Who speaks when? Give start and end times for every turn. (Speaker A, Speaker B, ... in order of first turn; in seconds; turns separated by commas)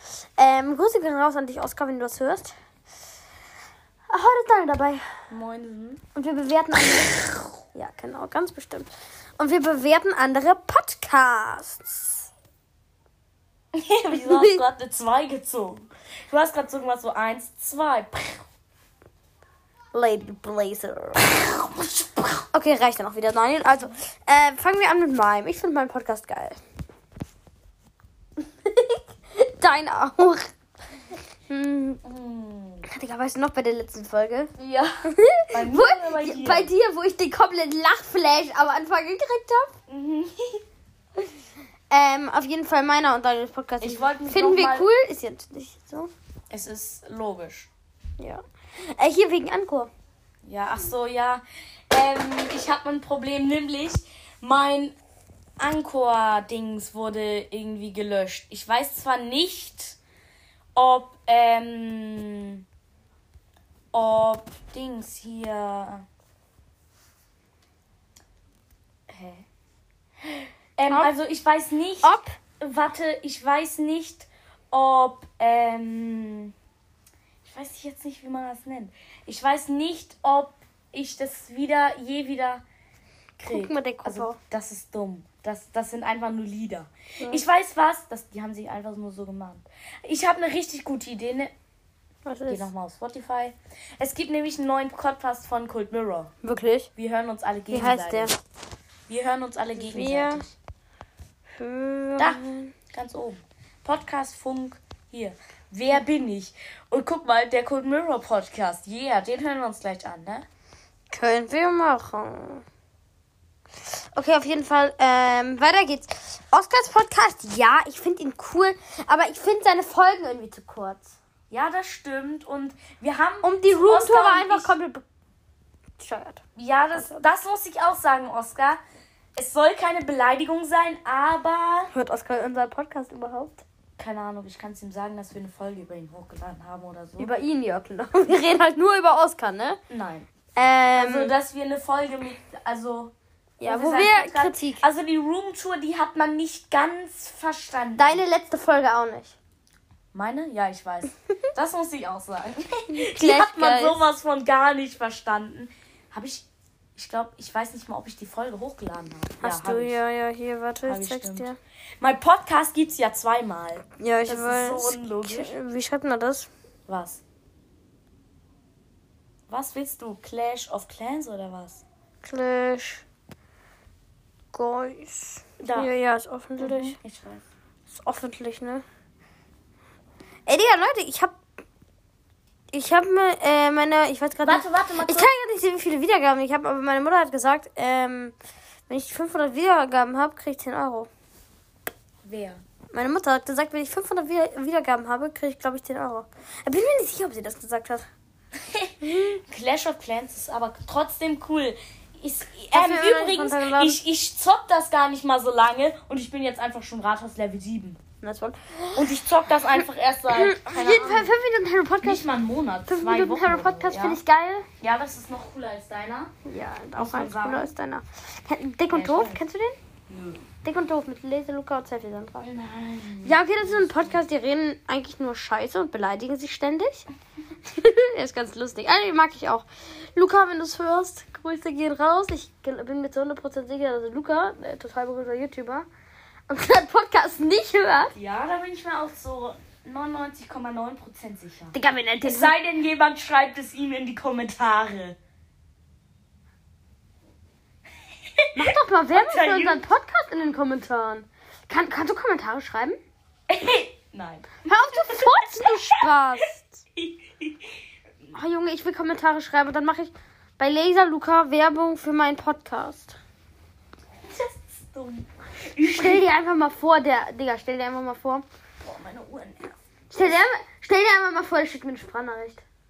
Speaker A: 0.4-2.5, Speaker A: 4.1-5.0, Speaker B: 5.3-6.0, Speaker A: 6.1-12.3, Speaker B: 13.7-18.4, Speaker A: 14.1-14.6, Speaker A: 19.9-21.2, Speaker B: 21.2-22.4, Speaker A: 22.5-26.6, Speaker A: 28.6-30.5, Speaker A: 31.5-32.0, Speaker B: 32.0-32.9, Speaker A: 32.9-34.5, Speaker B: 34.6-36.7, Speaker A: 35.1-39.7, Speaker B: 39.9-40.6, Speaker A: 41.9-46.1, Speaker B: 43.8-44.9, Speaker B: 46.5-47.7, Speaker A: 48.2-49.9, Speaker B: 50.4-54.9, Speaker B: 55.6-60.0, Speaker B: 60.7-62.6, Speaker B: 63.9-66.0, Speaker B: 69.1-69.4, Speaker B: 70.8-76.5, Speaker A: 72.0-72.3, Speaker B: 77.4-82.6, Speaker B: 83.4-91.5, Speaker A: 83.5-84.4, Speaker A: 92.2-92.7, Speaker B: 92.5-96.3, Speaker A: 96.4-96.9, Speaker B: 97.0-98.3, Speaker A: 97.7-98.3, Speaker B: 99.1-100.5, Speaker A: 99.8-100.4, Speaker A: 101.6-102.7, Speaker B: 102.2-110.5, Speaker A: 111.1-112.6, Speaker A: 114.1-121.2, Speaker B: 121.5-124.7, Speaker A: 123.4-125.0, Speaker A: 126.0-126.4, Speaker B: 126.5-128.8, Speaker A: 126.9-127.2, Speaker B: 129.3-131.9, Speaker A: 131.9-133.6, Speaker B: 134.0-137.3, Speaker A: 137.2-139.8, Speaker B: 139.9-140.2, Speaker A: 140.6-141.3, Speaker B: 140.9-148.2, Speaker A: 143.6-144.8, Speaker A: 148.0-149.3, Speaker B: 150.1-156.4, Speaker A: 152.9-154.0, Speaker B: 156.9-160.0, Speaker A: 159.4-161.6, Speaker B: 160.8-165.6, Speaker A: 164.0-166.5, Speaker B: 166.9-167.2, Speaker B: 169.5-171.8, Speaker A: 172.2-173.0, Speaker A: 174.5-176.9, Speaker B: 175.6-175.9, Speaker B: 176.6-177.4, Speaker A: 177.9-178.8, Speaker A: 180.5-181.4, Speaker A: 182.7-188.3, Speaker B: 184.4-185.3, Speaker A: 188.9-191.1, Speaker B: 192.2-192.6, Speaker A: 192.9-198.0, Speaker B: 198.7-208.0, Speaker A: 199.0-199.4, Speaker A: 202.7-204.0, Speaker A: 208.2-209.1, Speaker B: 208.9-211.3, Speaker A: 210.3-212.2, Speaker B: 212.0-214.2, Speaker A: 212.9-214.7, Speaker B: 214.8-216.3, Speaker A: 216.4-219.8, Speaker B: 216.9-217.7, Speaker B: 218.9-219.4, Speaker B: 220.1-220.4, Speaker A: 220.6-222.5, Speaker B: 222.4-224.2, Speaker A: 223.2-227.1, Speaker A: 227.7-235.8, Speaker A: 236.5-238.1, Speaker B: 238.1-245.2, Speaker A: 241.7-242.5, Speaker B: 248.5-249.9, Speaker A: 248.6-253.0, Speaker B: 253.5-256.0, Speaker A: 254.6-256.8, Speaker B: 256.9-257.6, Speaker A: 258.3-263.2, Speaker B: 264.2-266.2, Speaker A: 265.9-268.4, Speaker B: 268.8-270.4, Speaker A: 270.1-272.6